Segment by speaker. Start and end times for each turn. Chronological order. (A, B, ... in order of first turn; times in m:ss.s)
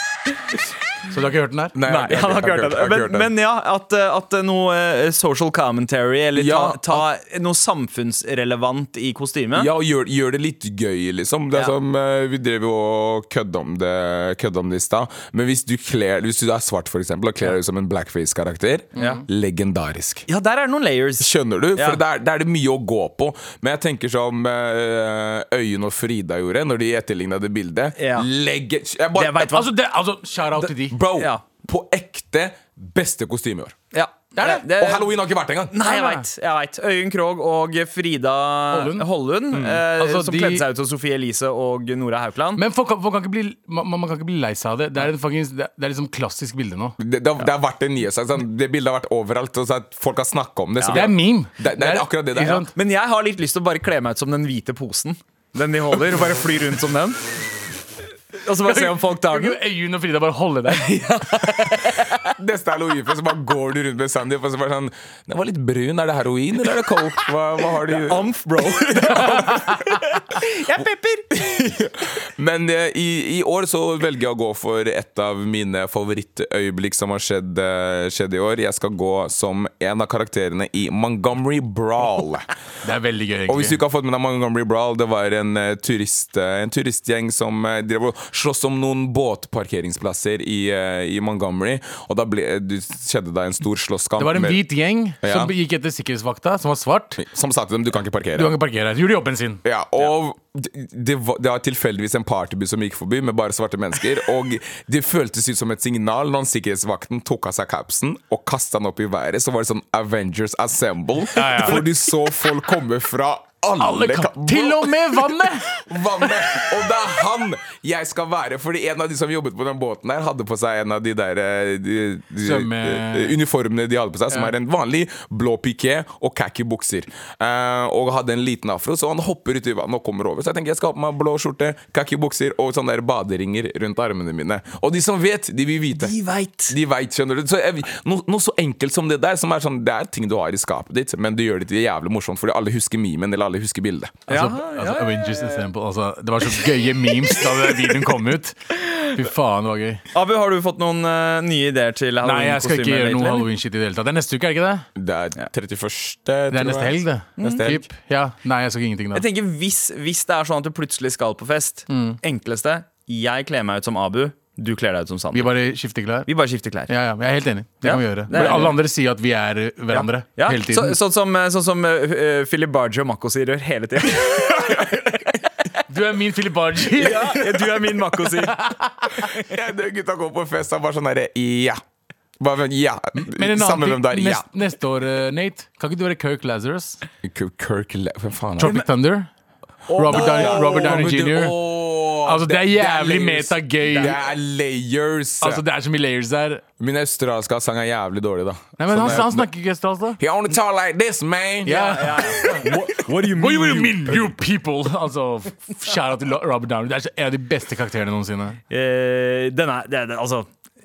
0:01.1-0:01.8 A
0:01.8-0:03.3 B
0:01.9-0:09.7 C
0:06.4-0:07.0 B
0:09.6-0:20.2 B
0:19.0-0:19.2 C
0:19.0-0:19.2 A
0:20.3-0:22.0 C
0:21.2-0:29.6 B
0:28.0-0:28.3 C
0:29.2-0:29.7 C
0:29.5-0:31.0 A
0:30.6-0:31.4 C
0:30.9-0:33.8 B
0:33.9-0:35.1 C
0:34.4-0:34.7 A
0:34.6-0:35.8 B
0:35.7-0:42.6 C
0:35.8-0:36.3 A
0:38.7-0:39.1 A
0:39.5-0:39.8 B
0:40.0-0:40.7 A
0:42.6-0:47.0 A
0:47.0-0:52.7 B
0:50.8-0:51.0 C
0:50.9-0:52.7 A
0:52.7-0:57.2 C
0:58.4-0:59.6 C
0:58.6-1:01.7 A
1:00.7-1:02.2 C
1:02.4-1:09.7 B
1:08.0-1:11.3 C
1:11.3-1:22.5 B
1:22.8-1:23.8 A
1:23.5-1:34.6 B
1:34.2-1:37.2 A
1:35.2-1:35.5 B
1:37.2-1:38.6 B
1:38.4-1:39.6 A
1:39.6-2:16.2 B
1:51.4-1:51.9 A
1:53.8-1:56.7 A
2:02.4-2:03.4 A
2:15.9-2:16.8 C
2:16.7-2:24.2 B
2:24.3-2:25.7 C
2:24.3-2:30.0 A
2:26.8-2:27.9 C
2:30.1-2:33.5 C
2:32.2-2:34.9 A
2:35.0-2:37.8 B
2:36.5-2:39.2 A
2:37.4-2:37.7 C
2:39.1-2:45.5 C
2:41.9-2:42.2 A
2:45.3-2:46.3 A
2:46.3-2:46.9 C
2:46.9-2:51.0 A
2:47.8-2:48.8 C
2:49.9-2:55.0 C
2:54.3-2:55.2 B
2:55.9-2:57.6 A
2:57.0-2:58.6 C
2:58.2-2:59.2 A
2:59.3-3:01.8 B
3:02.4-3:04.5 B
3:03.2-3:07.0 A
3:07.2-3:08.8 B
3:08.6-3:09.3 A
3:08.6-3:08.9 C
3:09.9-3:11.0 C
3:09.9-3:15.6 B
3:10.0-3:11.6 A
3:12.2-3:14.2 A
3:13.8-3:14.2 C
3:15.4-3:16.6 A
3:16.8-3:19.5 B
3:18.8-3:20.2 A
3:20.2-3:22.0 B
3:21.6-3:24.3 C
3:21.6-3:28.6 A
3:28.7-3:30.5 C